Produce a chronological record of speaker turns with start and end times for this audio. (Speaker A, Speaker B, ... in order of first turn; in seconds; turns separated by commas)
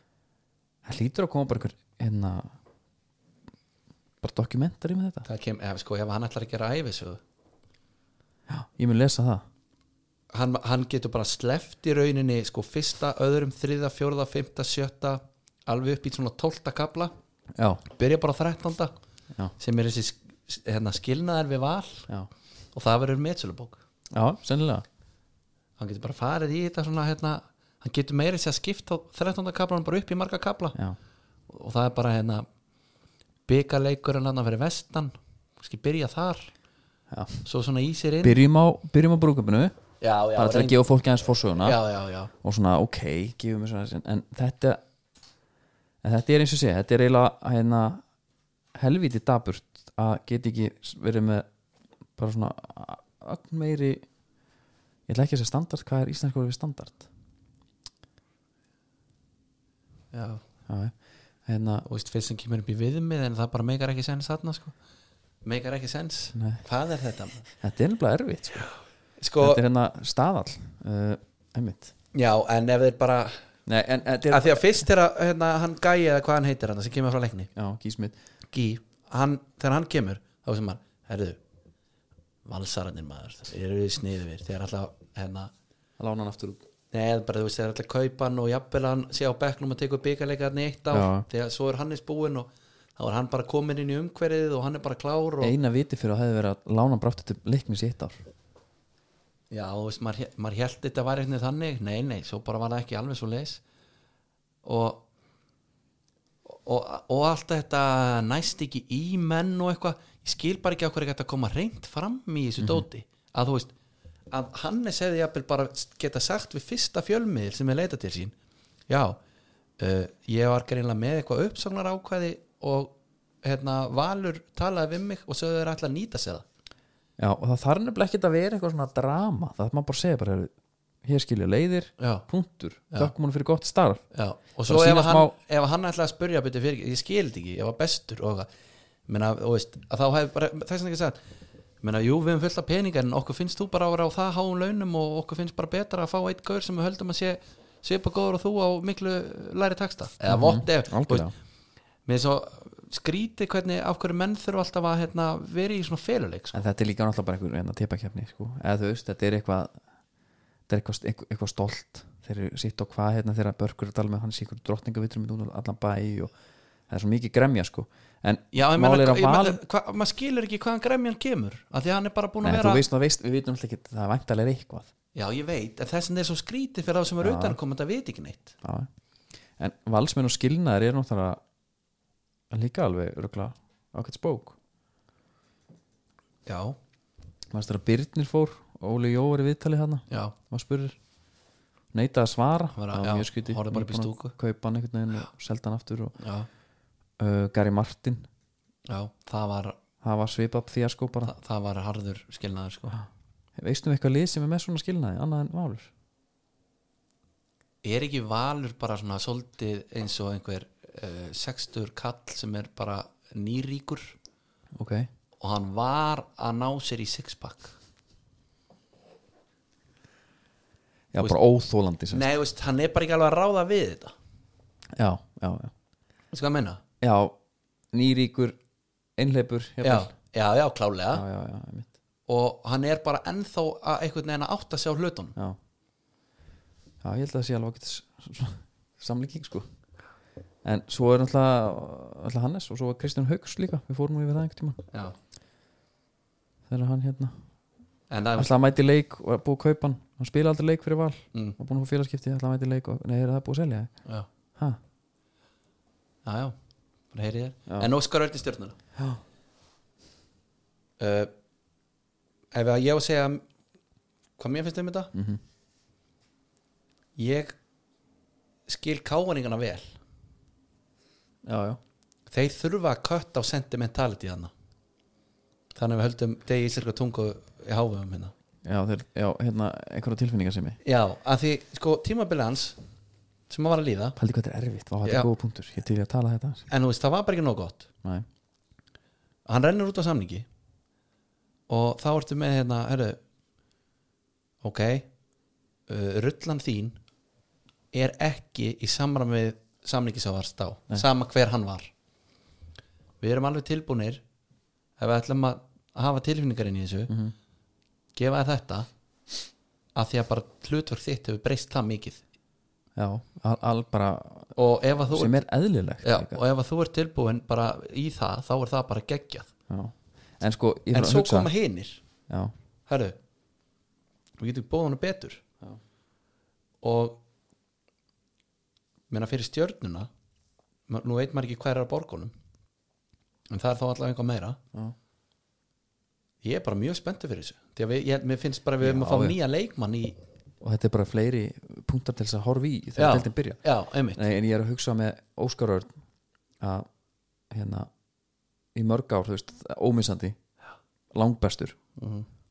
Speaker A: 0.8-2.5, Speaker A: 4.2-5.2, Speaker B: 5.2-7.2, Speaker A: 8.5-9.4, Speaker B: 10.3-17.1, Speaker A: 17.6-17.8, Speaker B: 17.9-18.9, Speaker B: 19.6-22.1, Speaker B: 22.7-23.8, Speaker A: 24.1-24.8, Speaker B: 25.8-30.8, Speaker B: 31.5-32.5, Speaker B: 33.5-36.5, Speaker A: 37.1-37.5, Speaker B: 37.5-38.4, Speaker A: 38.2-39.7, Speaker B: 40.0-40.8, Speaker A: 40.4-41.8, Speaker B: 41.6-42.3, Speaker A: 42.4-44.8, Speaker A: 46.0-48.0, Speaker A: 48.7-51.5, Speaker A: 52.2-54.0, Speaker A: 55.1-57.1, Speaker B: 60.1-60.4, Speaker A: 60.7-61.0, Speaker A: 61.5-61.9, Speaker B: 61.9-64.7, Speaker B: 65.4-67.5, Speaker A: 66.3-66.6, Speaker A: 67.6-68.7, Speaker B: 69.2-69.6, Speaker A: 69.4-71.9, Speaker B: 72.1-73.4, Speaker A: 73.7-74.8, Speaker B: 74.3-77.5, Speaker A: 77.5-78.2, Speaker B: 78.5-81.4, Speaker B: 82.5-85.5, Speaker A: 86.0-86.6, Speaker B: 86.9-95.5, Speaker A: 90.9-91.3, Speaker A: 95.4-98.2, Speaker B: 99.5-103.6, Speaker B: 104.6-105.0, Speaker B: 106.5-113.7, Speaker B: 114.3-118.3, Speaker B: 118.9-119.2, Speaker B: 119.8-126.5, Speaker A: 127.2-130.5, Speaker A: 131.0-134.0, Speaker B: 132.0-132.3, Speaker B: 134.1-138.5, Speaker A: 134.7-135.3, Speaker B: 139.1-141.2, Speaker B: 141.8-151.3, Speaker A: 150.3-151.3, Speaker B: 152.1-156.6, Speaker A: 156.5-159.7, Speaker A: 160.7-166.3, Speaker A: 166.9-169.6, Speaker B: 168.5-172.8, Speaker A: 172.4-174.9, Speaker B: 175.1-178.6, Speaker A: 177.2-177.6, Speaker A: 178.6-178.9, Speaker A: 179.6-181.4, Speaker A: 182.5-184.6, Speaker B: 186.4-186.8, Speaker A: 187.5-191.0, Speaker B: 190.1-190.3, Speaker A: 191.9-196.2, Speaker B: 192.7-194.3, Speaker B: 196.2-196.5, Speaker A: 197.2-198.3, Speaker B: 198.9-199.8, Speaker A: 200.0-201.3, Speaker B: 201.2-203.0, Speaker A: 203.6-205.9, Speaker B: 207.8-214.1, Speaker A: 214.7-215.1, Speaker B: 215.4-217.8, Speaker A: 221.1-222.3, Speaker B: 222.1-224.1, Speaker A: 224.9-225.7, Speaker B: 226.3-226.8, Speaker A: 227.0-227.3, Speaker A: 227.9-228.6, Speaker A: 229.2-230.1, Speaker B: 229.8-231.2, Speaker A: 231.1-231.9, Speaker B: 232.3-235.4, Speaker A: 237.0-239.7, Speaker A: 240.6-244.8, Speaker A: 246.7-247.3, Speaker B: 248.1-248.5, Speaker A: 248.4-253.9, Speaker B: 256.2-256.6, Speaker B: 257.1-258.8, Speaker B: 261.0-261.3, Speaker B: 262.5-263.4, Speaker B: 264.4-265.1, Speaker A: 265.1-265.4, Speaker B: 267.1-267.6, Speaker B: 268.7-270.0, Speaker A: 271.4-271.8, Speaker B: 272.3-274.5, Speaker B: 275.7-278.3, Speaker A: 278.6-280.8, Speaker B: 280.8-282.8, Speaker B: 283.5-284.2, Speaker A: 284.2-286.6, Speaker B: 285.0-285.3, Speaker B: 286.7-287.9, Speaker B: 289.4-290.4, Speaker B: 291.7-293.2, Speaker B: 294.6-295.1, Speaker B: 295.9-297.0, Speaker B: 297.9-301.9, Speaker B: 303.2-304.2, Speaker B: 305.0-307.1, Speaker A: 307.1-307.3, Speaker B: 308.1-308.9, Speaker B: 309.9-312.2, Speaker A: 312.9-314.5, Speaker B: 314.6-315.4, Speaker A: 315.1-316.4, Speaker B: 316.0-319.5, Speaker A: 319.7-321.5, Speaker B: 320.9-322.0, Speaker B: 322.9-323.1, Speaker B: 324.4-325.4, Speaker B: 326.8-327.2, Speaker B: 329.1-330.1, Speaker B: 330.9-332.3, Speaker B: 333.5-334.6, Speaker B: 336.4-340.2, Speaker A: 338.8-339.4, Speaker A: 340.6-343.6, Speaker B: 343.0-344.2, Speaker A: 344.1-345.9, Speaker A: 346.6-346.9, Speaker A: 347.5-347.9, Speaker A: 348.7-350.4, Speaker A: 351.1-351.8, Speaker B: 352.0-352.3